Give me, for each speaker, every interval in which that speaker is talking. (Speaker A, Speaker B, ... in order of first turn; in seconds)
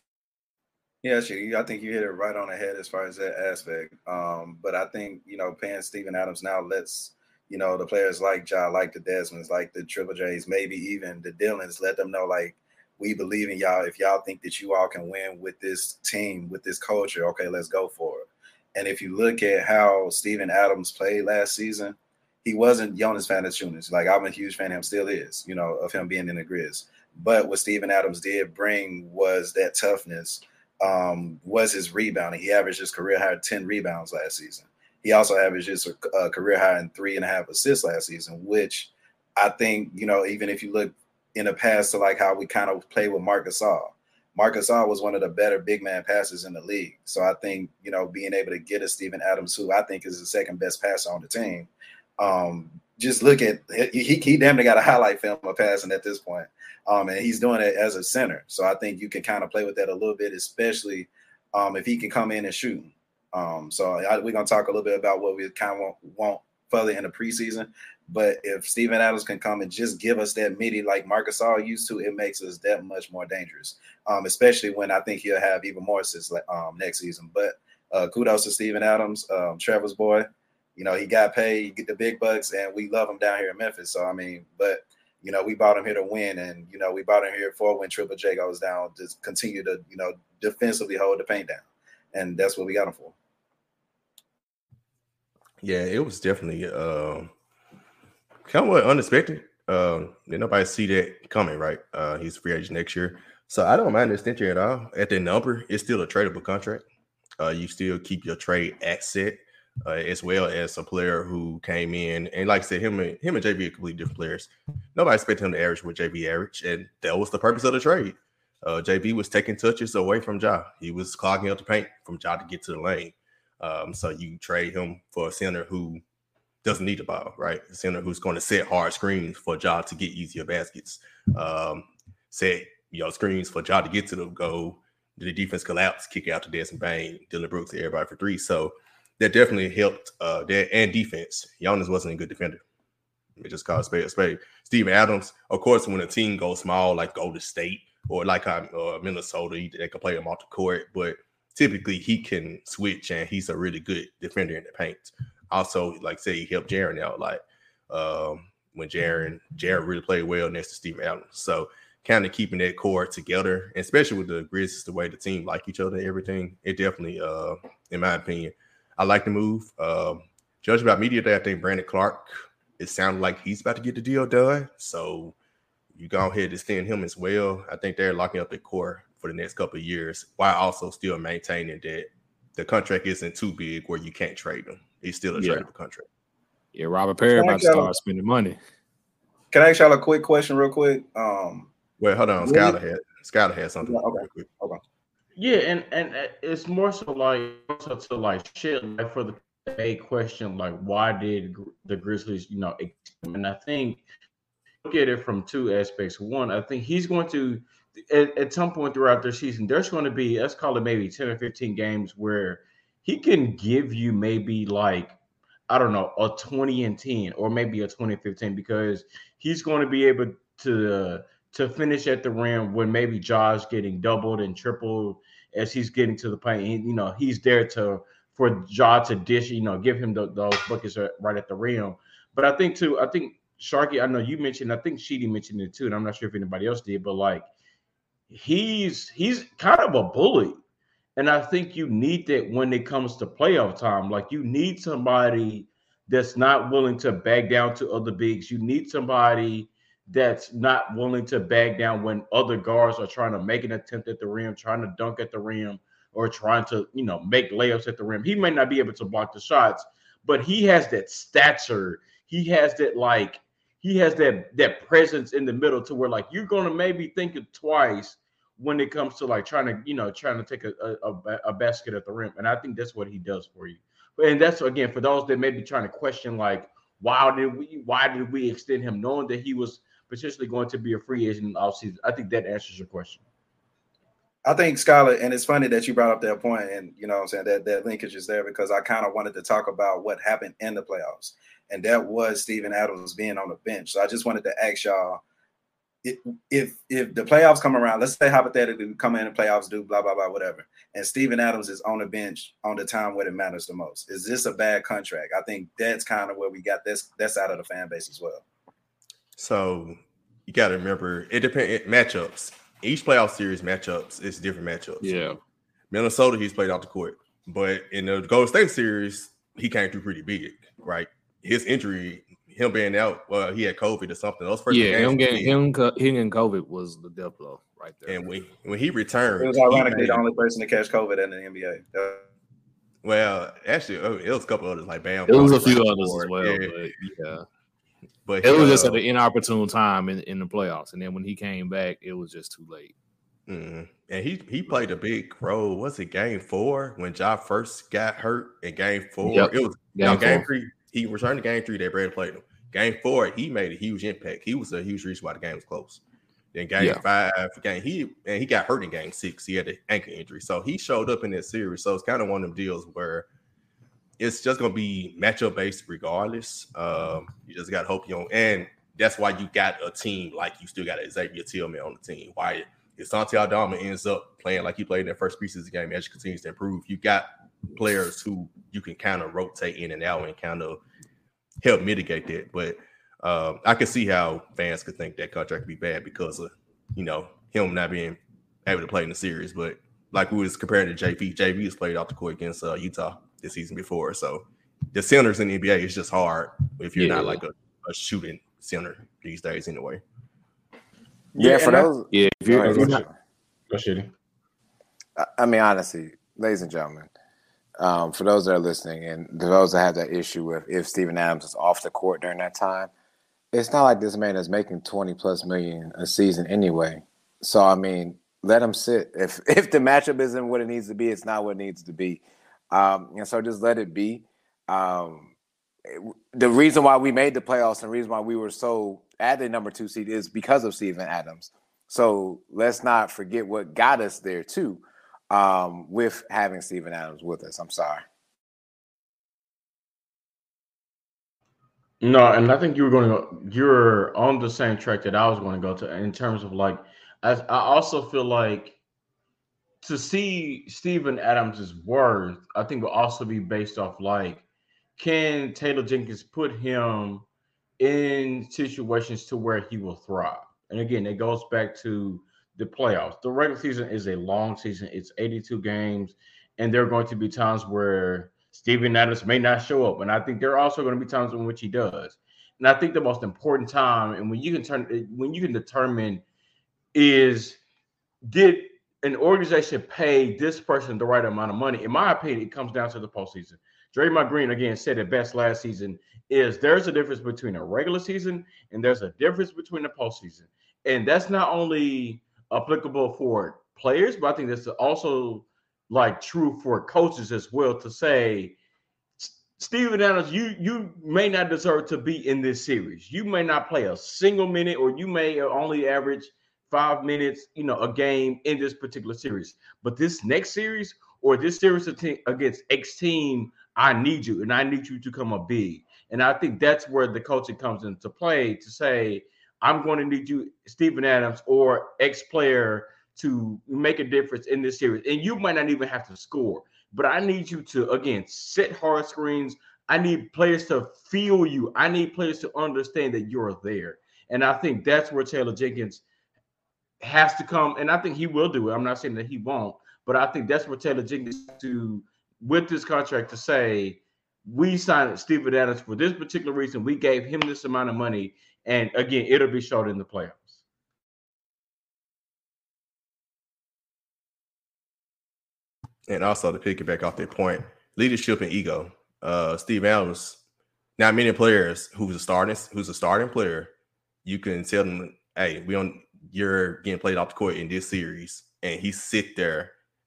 Speaker A: 1.0-93.2, 187.3-187.9, 189.5-191.7, 192.4-192.8, 193.8-194.8, 284.4-295.2, 296.0-308.4, 329.4-332.2
Speaker B: 95.6-97.3, 98.5-106.8, 107.4-126.0, 126.6-142.6, 143.4-175.3, 175.9-186.1, 192.0-194.5, 309.4-315.1, 315.9-325.6, 328.1-330.2, 333.0-336.7, 338.2-339.0, 343.5-356.0, 356.5-363.3, 364.2-380.8, 381.6-400.0, 556.1-560.4, 561.0-563.7, 564.2-569.7
Speaker C: 185.3-185.6, 186.7-188.6, 315.0-315.4, 324.7-328.2, 335.3-337.4, 338.4-342.9, 349.2-350.4, 396.9-397.4, 402.1-403.0
Speaker D: 195.3-204.0, 204.8-215.2, 215.7-237.5, 238.3-240.6, 241.2-283.2, 401.4-401.8, 402.6-402.9, 403.7-404.1, 442.0-448.8, 449.8-454.4, 455.0-457.2, 457.8-476.2, 476.9-477.6, 478.3-498.6, 499.2-536.0, 537.0-550.6
Speaker E: 401.4-403.1, 405.2-407.1, 407.8-412.9, 413.5-425.3, 425.9-438.0